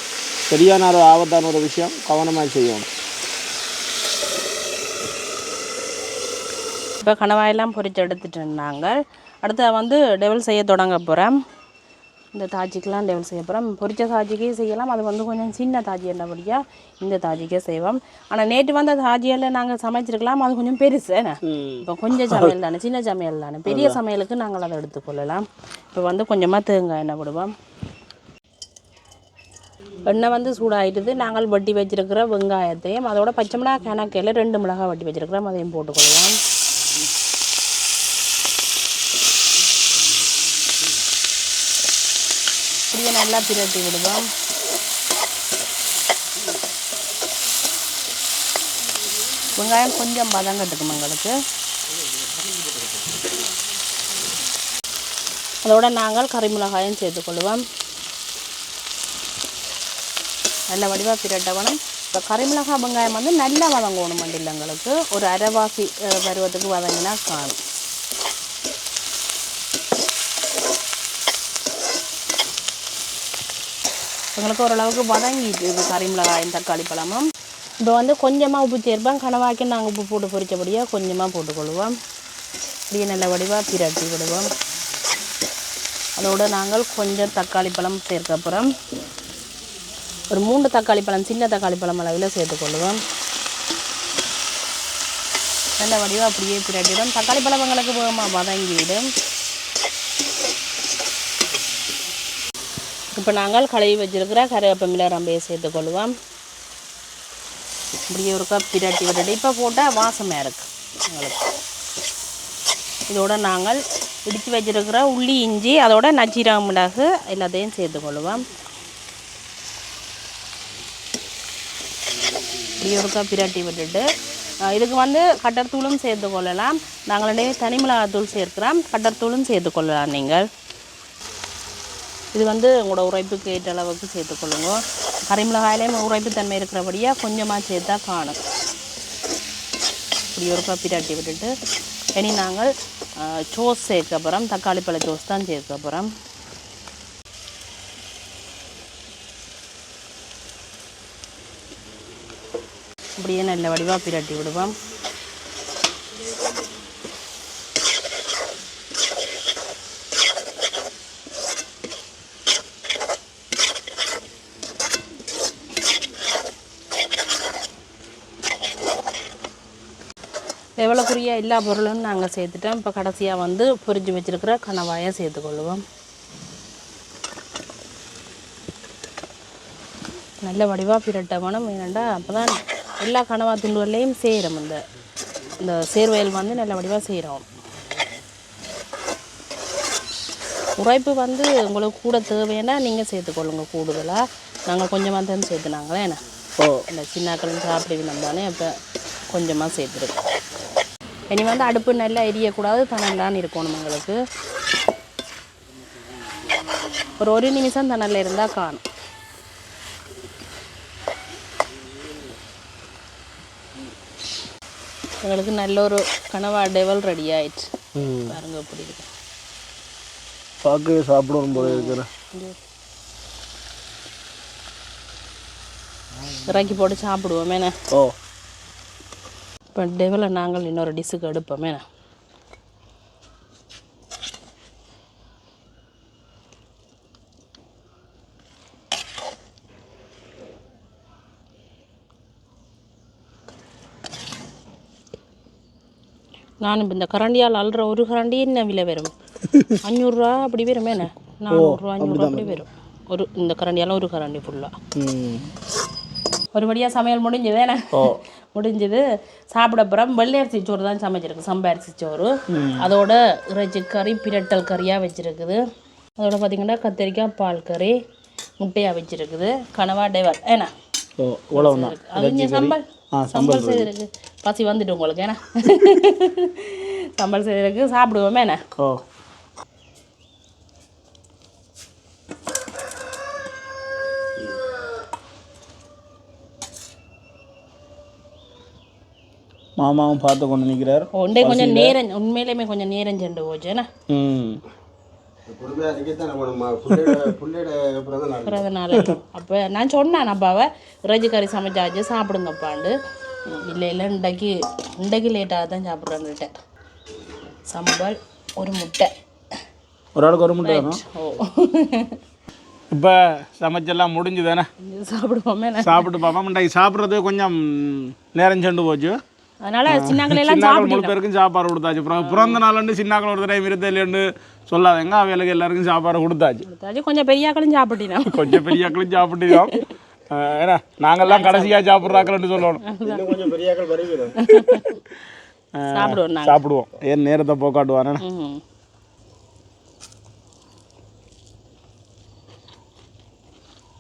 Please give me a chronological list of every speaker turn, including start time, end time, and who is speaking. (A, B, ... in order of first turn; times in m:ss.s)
0:00.5-0:02.9 A
0:07.0-0:11.4 B
0:12.3-0:27.5 B
0:21.4-0:22.5 A
0:23.7-0:24.0 A
0:30.1-0:36.4 B
0:42.9-0:44.3 B
0:49.6-0:51.4 B
0:55.6-0:57.6 B
1:00.7-1:07.6 B
1:14.4-1:17.2 B
1:17.8-1:21.9 B
1:22.9-1:24.5 B
1:26.2-1:28.7 B
1:30.3-1:33.0 B
1:35.8-1:39.1 B
1:43.2-1:46.1 B
1:48.1-1:51.4 B
1:53.1-1:58.4 B
2:02.8-2:04.0 B
2:04.7-2:10.4 B
2:12.3-2:18.4 B
2:20.3-2:21.5 B
2:22.2-2:26.1 B
2:33.2-2:34.8 B
2:50.8-2:55.8 B
3:00.4-3:04.8 B
3:05.6-3:07.4 B
3:10.8-3:16.2 B
3:16.9-3:18.7 B
3:19.3-3:20.2 B
3:21.3-3:24.2 B
3:27.2-3:28.8 B
3:35.2-3:37.7 B
3:38.0-3:38.4 A
3:38.3-3:39.1 B
3:40.6-3:42.1 A
3:41.5-3:42.6 B
3:46.5-3:47.8 B
3:49.8-3:51.8 B
4:06.6-4:09.1 B
4:09.5-4:09.8 A
4:09.8-4:14.8 B
4:11.5-4:12.6 A
4:15.0-4:15.5 A
4:16.5-4:19.0 B
4:17.9-4:18.2 A
4:19.5-4:25.6 B
4:22.5-4:22.9 A
4:26.2-4:28.0 B
4:28.6-4:30.7 B
4:31.2-4:33.9 A
4:31.6-4:32.8 B
4:33.3-4:38.6 B
4:49.8-4:52.0 A
4:51.2-4:53.9 B
4:54.1-4:54.6 A
4:55.5-4:58.6 C
4:56.9-4:57.2 A
4:58.4-5:02.9 B
5:03.5-5:06.6 B
5:07.7-5:09.1 B
5:10.2-5:11.0 A
5:10.6-5:12.2 B
5:12.9-5:14.7 A
5:14.8-5:16.1 B
5:15.8-5:19.2 A
5:19.6-5:21.2 B
5:19.9-5:26.7 A
5:22.2-5:22.6 B
5:26.7-5:28.9 B
5:28.3-5:32.8 A
5:31.2-5:31.8 B
5:32.0-5:32.3 C
5:32.8-5:33.5 B
5:33.0-5:34.4 C
5:34.4-5:35.0 B
5:34.5-5:34.9 A
5:35.8-5:38.2 A
5:35.9-5:36.6 B
5:38.2-5:38.6 B